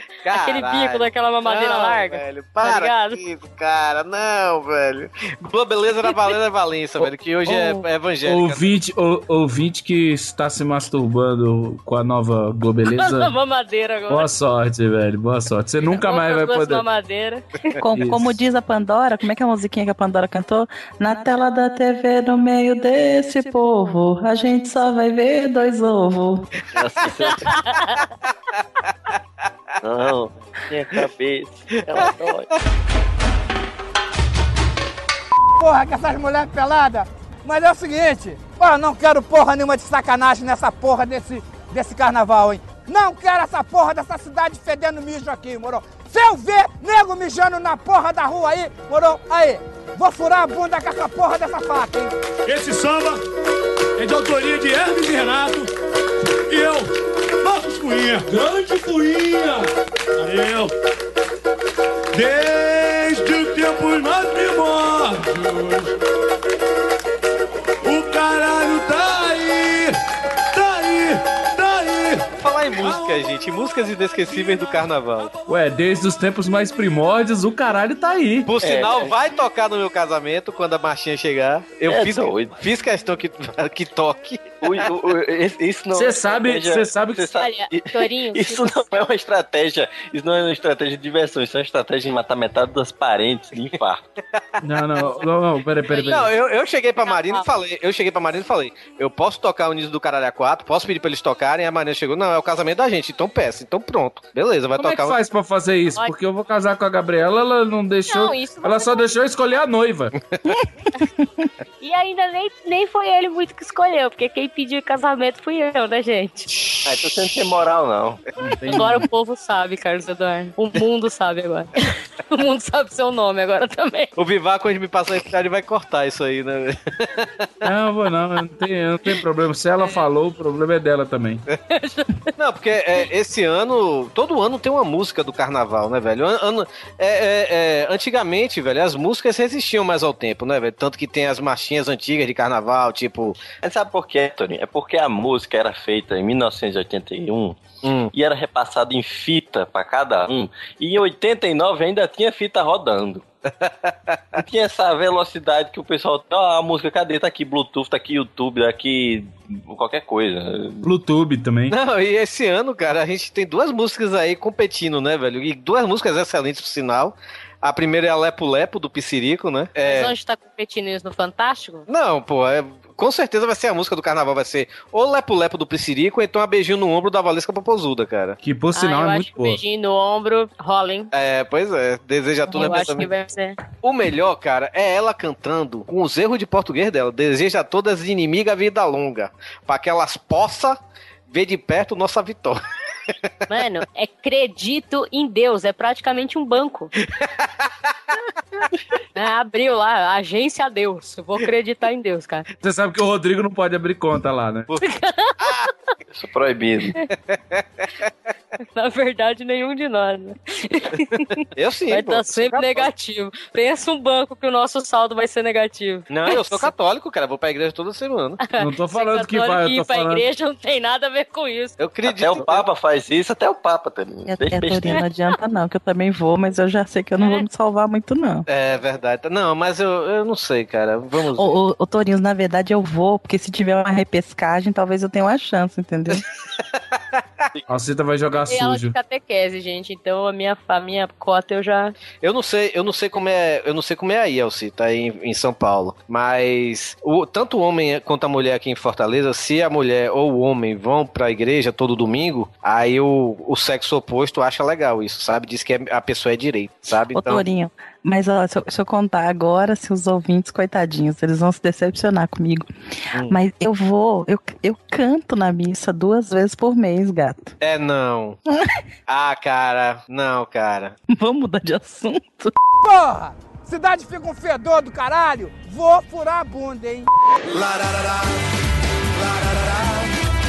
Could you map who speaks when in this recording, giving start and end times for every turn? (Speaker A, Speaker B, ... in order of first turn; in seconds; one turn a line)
Speaker A: 0.2-8.6
Speaker B: 0.3-3.2
Speaker C: 8.2-13.3
Speaker B: 12.9-14.3
Speaker C: 14.1-16.8
Speaker B: 15.8-17.8
Speaker D: 17.8-26.5
Speaker C: 17.9-18.4
Speaker E: 26.7-27.5
Speaker E: 29.8-32.5
Speaker F: 35.6-52.1
Speaker G: 52.5-53.2
Speaker G: 54.0-55.7
Speaker G: 56.5-56.9
Speaker G: 57.4-59.6
Speaker G: 60.2-60.7
Speaker G: 62.1-65.9
Speaker G: 67.8-70.0
Speaker G: 70.5-73.0
Speaker A: 72.4-75.3
Speaker C: 75.5-78.5
Speaker A: 78.5-84.6
Speaker E: 78.6-79.1
Speaker E: 81.8-82.5
Speaker E: 84.6-94.1
Speaker C: 85.9-87.2
Speaker B: 87.4-88.9
Speaker C: 94.6-96.3
Speaker B: 95.9-96.5
Speaker A: 96.1-105.2
Speaker B: 97.0-97.5
Speaker C: 104.9-110.1
Speaker B: 108.1-109.1
Speaker D: 111.2-111.5
Speaker B: 111.8-116.5
Speaker E: 116.8-118.2
Speaker C: 118.4-119.0
Speaker B: 118.7-124.1
Speaker A: 124.2-127.5
Speaker C: 127.6-131.4
Speaker B: 131.7-132.3
Speaker A: 132.4-143.4
Speaker E: 143.6-147.6
Speaker A: 147.8-148.1
Speaker E: 148.1-153.2
Speaker A: 153.5-154.4
Speaker E: 154.3-160.9
Speaker C: 160.8-161.7
Speaker A: 161.7-170.1
Speaker B: 169.8-171.8
Speaker A: 171.9-178.4
Speaker C: 178.4-179.6
Speaker B: 178.7-181.1
Speaker A: 181.1-183.1
Speaker B: 182.5-183.6
Speaker A: 183.8-192.6
Speaker B: 193.5-196.9
Speaker A: 197.0-197.4
Speaker B: 199.1-202.5
Speaker C: 202.6-204.7
Speaker B: 204.8-205.7
Speaker A: 205.4-205.7
Speaker E: 206.1-207.0
Speaker A: 207.3-207.8
Speaker B: 208.7-216.7
Speaker A: 211.6-212.9
Speaker A: 216.1-218.4
Speaker B: 218.5-221.7
Speaker C: 218.6-220.2
Speaker A: 221.8-222.6
Speaker E: 222.0-225.0
Speaker D: 224.2-228.4
Speaker A: 228.5-231.5
Speaker D: 231.3-236.2
Speaker C: 237.7-238.9
Speaker B: 238.5-241.9
Speaker A: 242.2-257.4
Speaker D: 257.1-262.7
Speaker D: 263.2-267.5
Speaker A: 267.6-268.4
Speaker A: 269.1-270.9
Speaker D: 271.1-272.5
Speaker F: 272.8-277.1
Speaker G: 277.5-278.4
Speaker G: 279.2-280.1